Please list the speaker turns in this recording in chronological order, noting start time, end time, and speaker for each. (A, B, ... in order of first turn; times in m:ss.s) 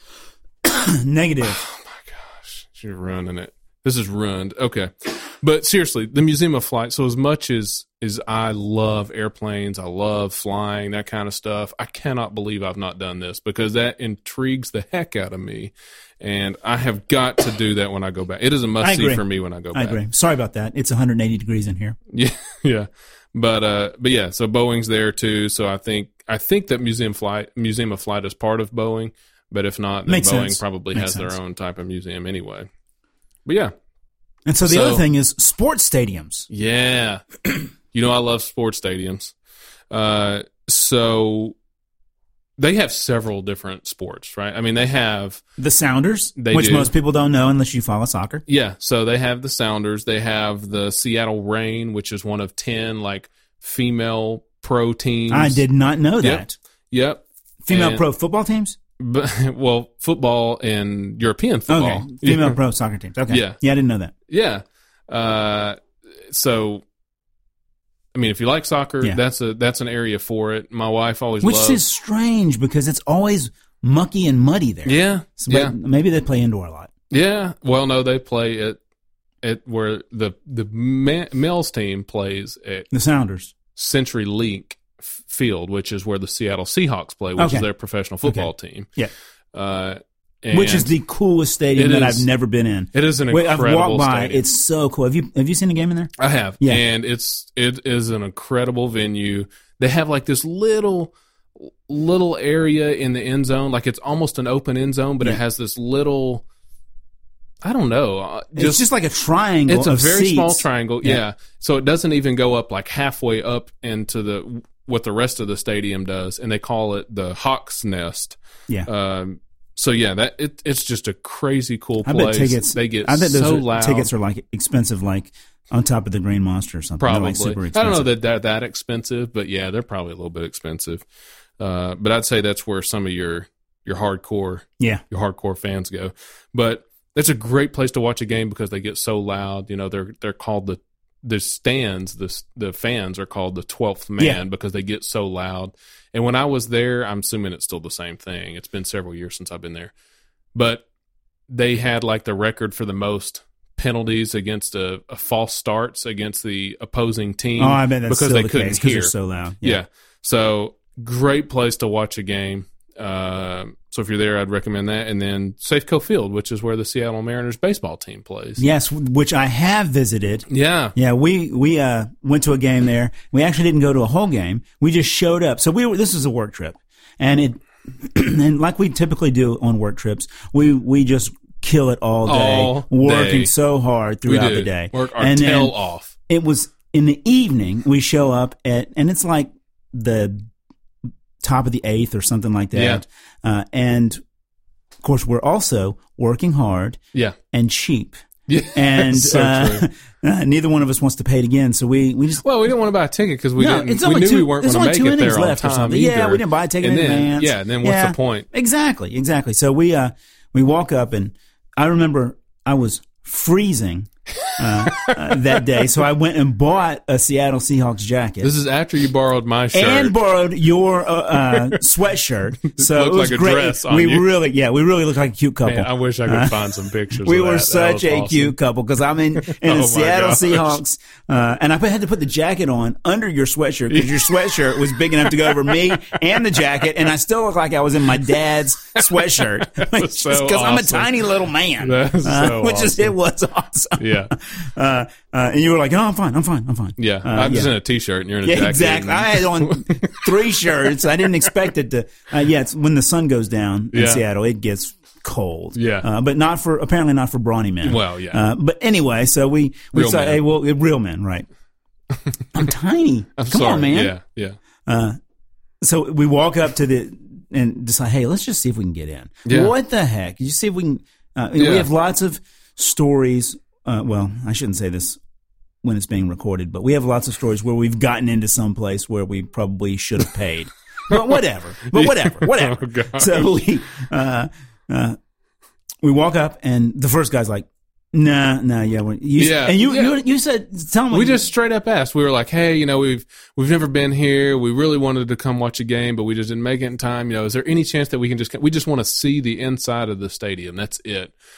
0:00.6-0:01.6 A
0:01.4-0:20.0 B
0:18.8-0:22.0 A
0:22.1-0:32.7 B
0:30.1-0:31.4 A
0:33.5-0:33.7 B
0:34.5-0:36.5 A
0:34.6-0:35.0 B
0:36.5-0:39.4 B
0:39.9-0:41.6 B
0:42.6-0:45.4 B
0:45.6-0:48.4 A
0:46.4-0:46.9 B
0:48.5-0:55.6 B
0:55.3-0:56.6 A
0:56.2-0:58.0 B
0:57.6-0:58.8 A
0:59.0-1:02.6 B
1:01.7-1:04.1 A
1:03.3-1:03.6 B
1:04.3-1:06.8 B
1:08.1-1:11.8 B
1:11.4-1:16.9 A
1:14.8-1:15.8 B
1:17.1-1:18.8 B
1:19.4-1:22.9 B
1:22.9-1:23.5 A
1:23.7-1:28.9 B
1:27.4-1:27.7 A
1:28.2-1:29.1 A
1:29.5-1:30.9 B
1:30.5-1:36.8 A
1:31.8-1:32.3 B
1:32.9-1:34.4 B
1:36.2-1:46.4 B
1:47.6-1:48.8 B
1:48.6-1:51.2 A
1:49.7-2:04.1 B
2:02.0-2:08.1 A
2:07.0-2:11.0 B
2:11.6-2:29.9 B
2:30.5-2:30.9 B
2:31.5-2:48.6 B
2:37.6-2:39.8 A
2:48.6-3:05.7 A
2:50.5-2:50.9 B
3:02.3-3:03.5 B
3:04.3-3:06.1 B
3:06.3-3:10.5 A
3:11.4-3:14.2 A
3:12.7-3:13.0 B
3:15.0-3:17.0 A
3:17.5-3:18.2 A
3:18.5-3:19.9 B
3:18.8-3:22.4 A
3:22.4-3:28.5 B
3:23.6-3:38.5 A
3:34.4-3:35.4 B
3:38.4-3:40.2 B
3:39.7-3:46.6 A
3:42.6-3:44.3 B
3:45.6-3:48.6 B
3:47.1-4:07.7 A
3:49.4-3:50.8 B
3:53.9-3:54.5 B
3:59.7-4:01.1 B
4:01.8-4:03.1 B
4:04.0-4:04.3 B
4:07.0-4:10.3 B
4:08.4-4:21.5 A
4:13.9-4:14.2 B
4:15.8-4:16.1 B
4:17.8-4:18.4 B
4:19.9-4:20.4 B
4:22.5-4:24.2 A
4:23.4-4:24.6 B
4:24.9-4:25.2 A
4:25.8-4:35.2 A
4:29.5-4:29.7 B
4:31.6-4:31.9 B
4:35.8-4:45.2 A
4:41.9-4:43.5 B
4:46.0-4:51.4 A
4:49.4-4:50.2 B
4:51.1-5:01.3 B